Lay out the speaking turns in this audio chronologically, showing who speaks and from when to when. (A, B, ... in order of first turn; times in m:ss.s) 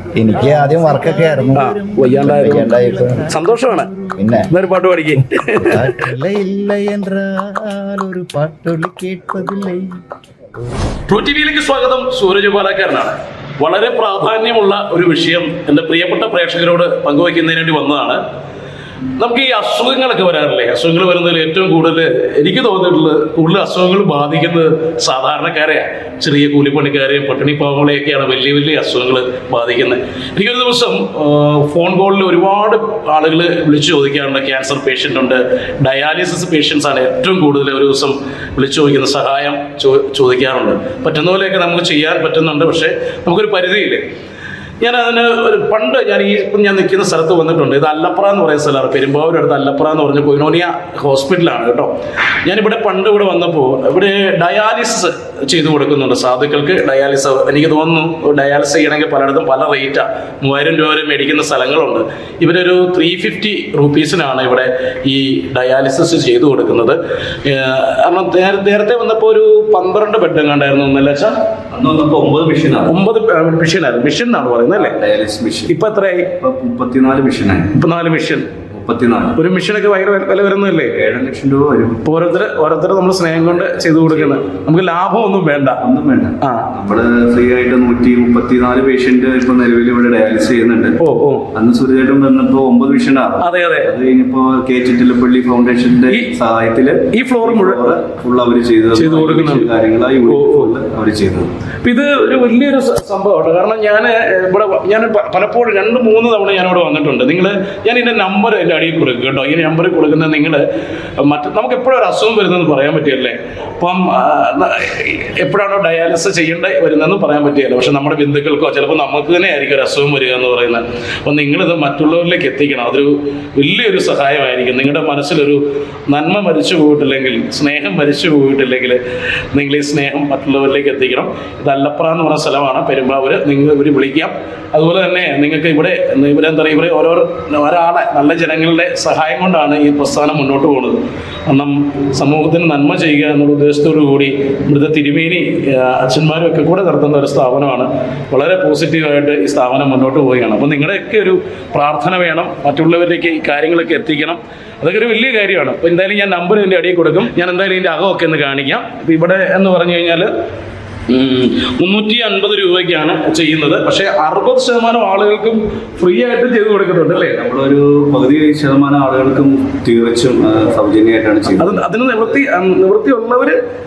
0:00.2-0:04.5 A
0:00.5-0:03.9 B
0:04.5-0:05.9 B
0:05.1-0:10.0 A
0:11.1-0:18.2 B
0:19.2-0:44.0 B
0:44.8-0:51.9 B
0:52.4-1:11.4 B
1:11.7-1:13.0 C
1:12.9-1:15.0 B
1:14.7-1:15.7 C
1:15.7-1:16.3 B
1:16.4-1:17.7 C
1:17.7-1:18.5 B
1:18.7-1:19.4 C
1:19.4-1:21.0 B
1:20.8-1:22.1 C
1:22.0-1:25.8 B
1:23.5-1:24.7 C
1:25.8-1:31.0 C
1:26.4-1:26.7 B
1:31.0-1:31.5 B
1:31.5-1:41.5 C
1:33.4-1:33.9 B
1:36.1-1:36.3 B
1:37.1-1:37.9 B
1:38.9-1:39.7 B
1:40.3-1:40.7 B
1:41.8-1:50.6 B
1:51.2-2:09.0 B
2:09.5-2:40.3 B
2:41.1-2:47.4 B
2:47.1-2:52.4 C
2:51.6-2:53.6 B